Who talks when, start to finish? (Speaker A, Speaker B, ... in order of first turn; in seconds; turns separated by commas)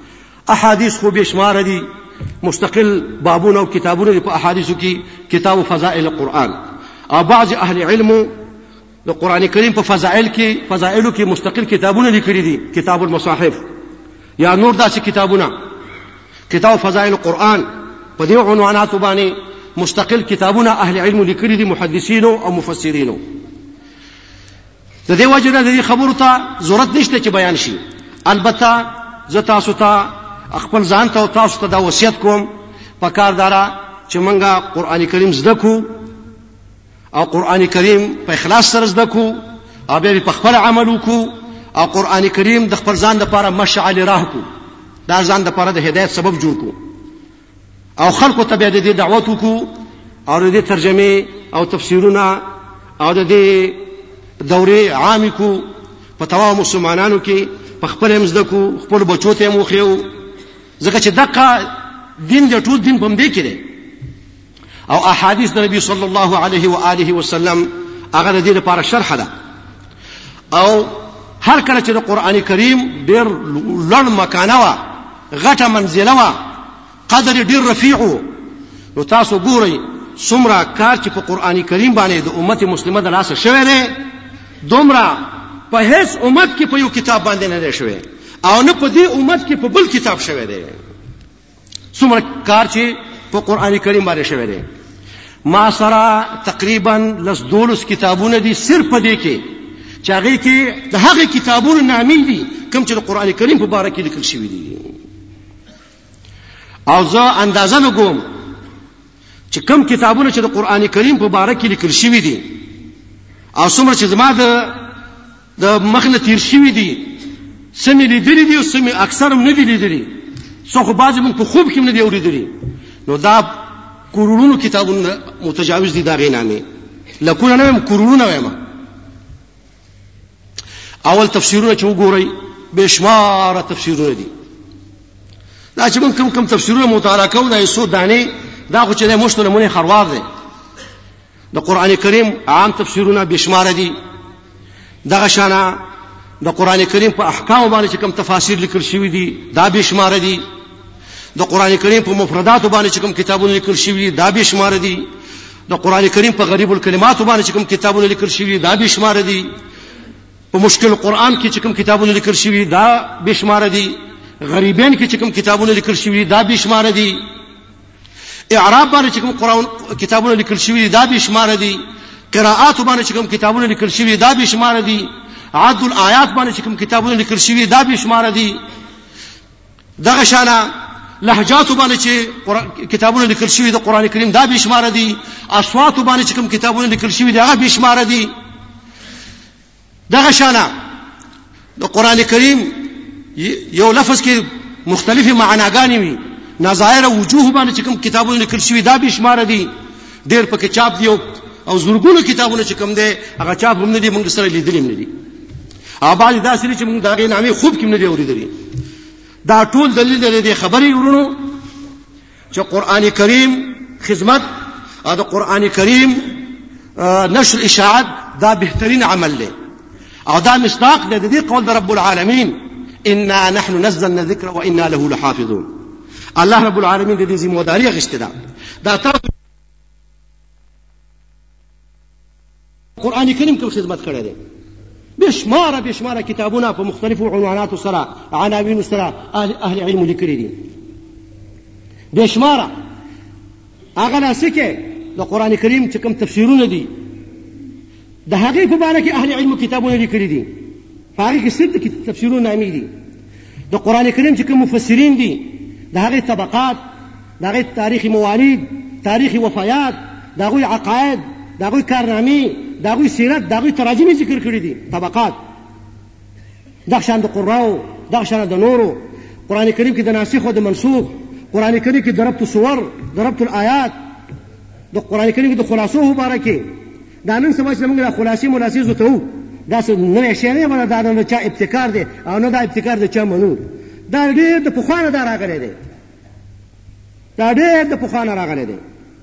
Speaker A: 0.5-1.9, Speaker A: 2.4-6.6, Speaker A: 7.1-8.3, Speaker A: 9.1-13.6, Speaker A: 14.4-15.6, Speaker A: 16.5-17.7, Speaker A: 18.2-23.2, Speaker A: 25.1-32.5, Speaker A: 33.0-35.9, Speaker A: 37.1-44.5, Speaker A: 45.1-46.8, Speaker A: 48.0-49.7, Speaker A: 50.3-52.4, Speaker A: 53.0-53.8, Speaker A: 54.4-55.7, Speaker A: 56.2-60.1, Speaker A: 60.8-61.7, Speaker A: 62.2-63.6, Speaker A: 64.9-69.3, Speaker A: 70.5-74.8, Speaker A: 75.3-76.4, Speaker A: 77.1-78.3, Speaker A: 79.0-84.0, Speaker A: 84.6-90.8, Speaker A: 92.0-94.6, Speaker A: 95.5-99.4, Speaker A: 100.0-104.9, Speaker A: 106.9-108.2, Speaker A: 109.5-112.6, Speaker A: 113.6-114.8, Speaker A: 115.6-117.2, Speaker A: 117.8-120.1, Speaker A: 120.7-123.5, Speaker A: 124.1-126.6, Speaker A: 127.2-128.6, Speaker A: 131.1-134.3, Speaker A: 135.8-140.2, Speaker A: 141.5-143.9, Speaker A: 145.1-145.8, Speaker A: 146.4-150.4, Speaker A: 151.4-155.1, Speaker A: 155.7-159.5, Speaker A: 160.5-167.2, Speaker A: 168.5-171.8, Speaker A: 172.3-178.6, Speaker A: 180.0-180.7, Speaker A: 181.2-188.3, Speaker A: 190.1-190.7, Speaker A: 191.8-192.8, Speaker A: 193.4-199.7, Speaker A: 200.3-205.1, Speaker A: 206.0-208.5, Speaker A: 209.5-211.4, Speaker A: 212.5-214.4, Speaker A: 215.1-216.2, Speaker A: 217.0-219.5, Speaker A: 220.3-225.7, Speaker A: 226.4-229.3, Speaker A: 233.0-234.4, Speaker A: 235.2-240.6, Speaker A: 242.1-242.7, Speaker A: 244.0-246.9, Speaker A: 248.3-250.5, Speaker A: 251.2-252.9, Speaker A: 253.7-256.8, Speaker A: 257.4-265.4, Speaker A: 266.9-273.9, Speaker A: 274.9-276.7, Speaker A: 277.2-285.8, Speaker A: 287.4-288.8